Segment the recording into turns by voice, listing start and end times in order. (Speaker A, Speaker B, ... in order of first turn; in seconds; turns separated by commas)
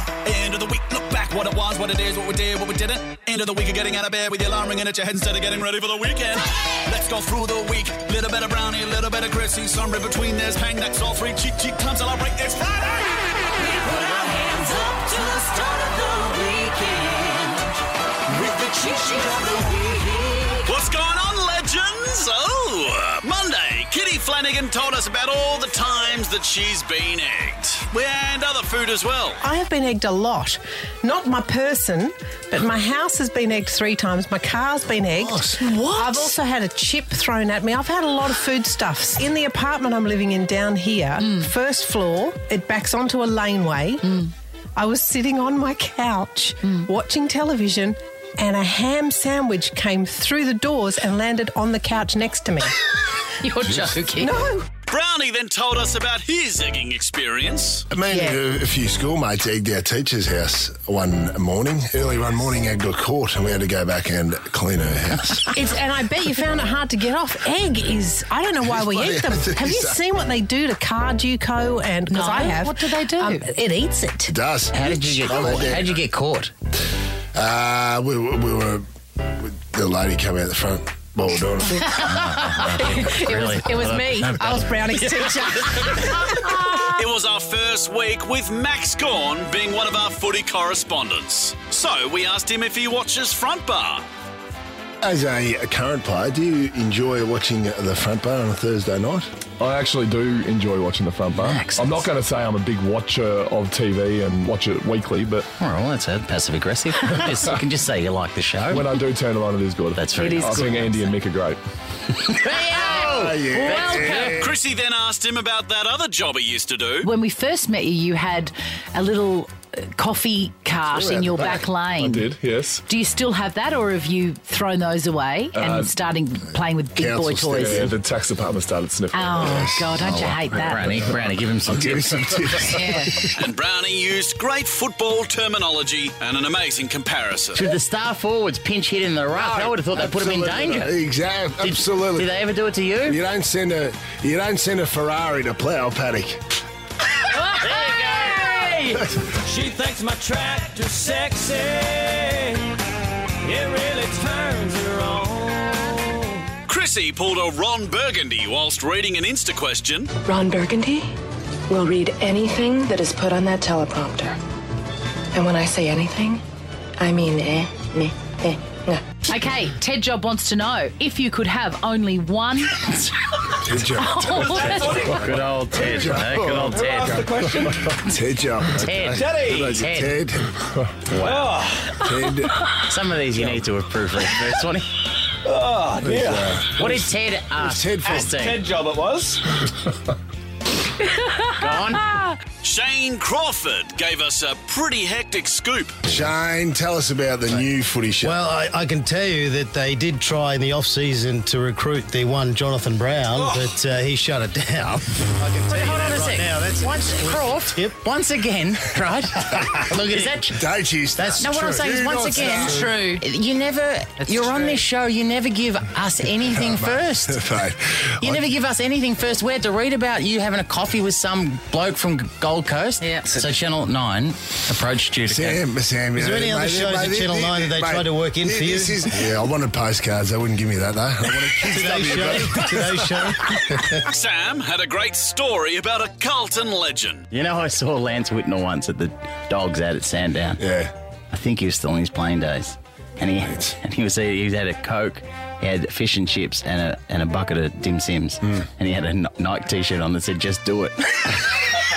Speaker A: 0.2-13.5, Speaker B: 14.3-17.5, Speaker B: 18.5-20.4, Speaker A: 20.6-29.4, Speaker C: 29.4-44.2, Speaker D: 35.1-35.5, Speaker B: 35.6-36.3, Speaker B: 41.2-41.5, Speaker B: 44.0-44.3, Speaker C: 44.8-52.7, Speaker B: 53.3-54.3, Speaker C: 54.1-54.7, Speaker A: 54.9-57.8, Speaker E: 57.9-65.5, Speaker C: 58.1-58.4, Speaker C: 65.5-74.3, Speaker E: 68.6-70.0, Speaker B: 72.1-73.6, Speaker E: 74.2-76.0, Speaker F: 74.7-76.5, Speaker E: 77.3-82.1, Speaker F: 82.0-84.8, Speaker C: 82.6-86.9, Speaker A: 87.0-94.0, Speaker E: 95.0-99.2, Speaker G: 99.6-105.5, Speaker F: 101.3-102.1, Speaker F: 105.6-108.9, Speaker G: 108.7-111.6, Speaker F: 109.9-110.7, Speaker B: 110.2-111.0, Speaker F: 112.3-114.3, Speaker E: 112.9-114.6, Speaker B: 113.5-114.4, Speaker A: 114.3-117.1, Speaker B: 117.0-122.3, Speaker E: 120.9-121.6, Speaker G: 122.0-122.8, Speaker B: 122.9-127.9, Speaker G: 125.5-125.9, Speaker E: 126.9-127.9, Speaker G: 127.6-129.3, Speaker B: 129.1-131.0, Speaker E: 129.3-130.4, Speaker F: 130.1-132.3, Speaker G: 131.0-131.3, Speaker E: 131.6-133.3, Speaker B: 132.6-133.3, Speaker A: 133.3-137.7, Speaker F: 137.5-141.0, Speaker E: 139.3-142.3, Speaker F: 141.6-143.2, Speaker E: 143.0-146.4, Speaker F: 147.5-149.0, Speaker H: 149.2-152.6, Speaker H: 153.4-156.0, Speaker A: 156.7-160.1, Speaker I: 160.2-161.1, Speaker I: 161.7-164.4, Speaker I: 165.3-166.4, Speaker I: 167.0-169.0, Speaker B: 169.3-175.1, Speaker E: 173.6-180.6, Speaker F: 174.8-178.1, Speaker H: 177.0-177.8, Speaker F: 178.8-180.2, Speaker E: 181.1-182.6, Speaker F: 181.1-181.8, Speaker H: 181.4-181.8, Speaker F: 182.8-184.9, Speaker E: 185.9-188.4, Speaker F: 186.7-188.7, Speaker F: 191.6-192.2, Speaker A: 192.6-196.0, Speaker E: 196.1-198.4, Speaker D: 198.2-208.0, Speaker F: 205.7-210.7, Speaker D: 209.5-210.4, Speaker E: 209.9-212.8, Speaker D: 211.1-212.0, Speaker F: 211.4-217.4, Speaker B: 212.6-213.2, Speaker B: 214.2-214.7, Speaker E: 216.4-218.5, Speaker F: 218.2-225.6, Speaker B: 223.0-223.3, Speaker E: 225.3-233.3, Speaker D: 226.2-229.3, Speaker D: 231.6-234.0, Speaker A: 234.1-237.2, Speaker F: 237.3-240.6, Speaker E: 240.6-240.9, Speaker F: 241.3-251.4, Speaker E: 243.4-243.7